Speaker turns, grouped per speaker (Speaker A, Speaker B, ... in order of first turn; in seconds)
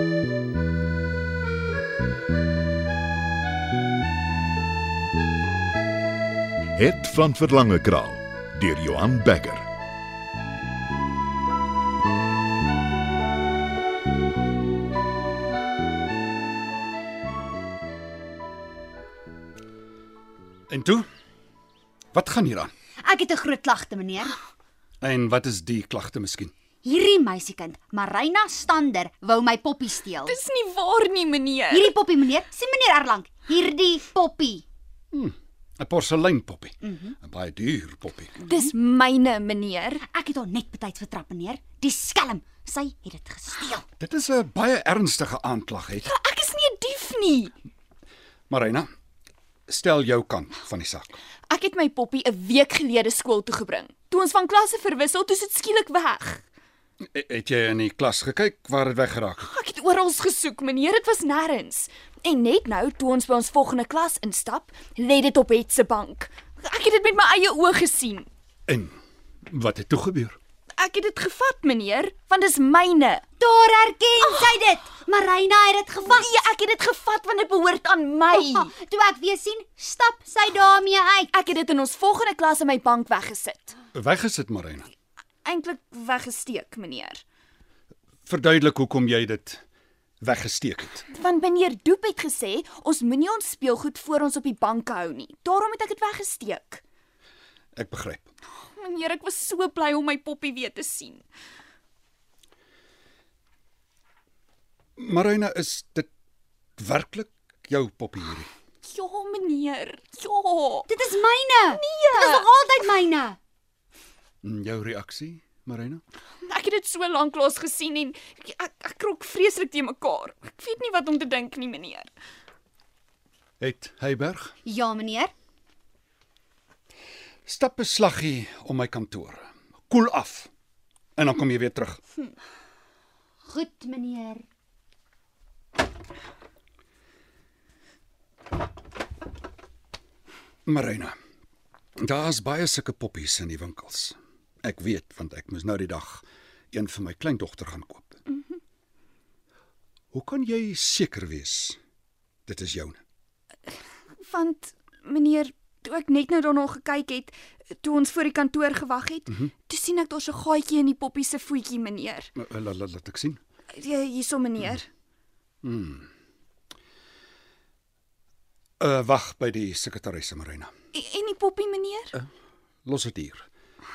Speaker A: 6.8-9.7
Speaker B: 20.7-21.1, 22.1-22.7, 25.0-26.5, 35.1-38.4, 44.0-46.1, 48.5-48.9, 49.7-51.2, 57.1-59.5, 68.7-70.4, 83.9-84.9, 88.3-89.6, 90.2-91.1, 97.8-98.3, 105.0-106.1, 106.8-108.5, 114.4-116.0, 123.6-124.6, 127.5-130.5, 131.2-132.0, 140.7-141.2, 142.0-148.2, 150.1-151.8, 152.5-153.0, 162.4-163.4, 165.6-166.1, 168.8-170.7, 172.8-173.5
Speaker C: 23.0-24.4, 26.8-30.4, 31.7-34.6, 36.8-37.2, 38.4-38.7, 40.1-43.9, 73.4-76.3, 78.3-81.3, 110.9-113.4, 124.7-125.3, 133.5-134.4
Speaker D: 30.3-31.9, 38.5-40.0, 46.0-47.5, 51.5-56.4, 59.4-68.3, 70.8-73.2, 74.2-74.6, 76.1-78.7, 81.3-83.8, 85.5-87.2, 91.1-96.8, 98.6-101.2, 108.8-110.9, 111.7-112.5, 116.5-122.1, 154.2-162.3, 163.7-164.9, 170.9-172.2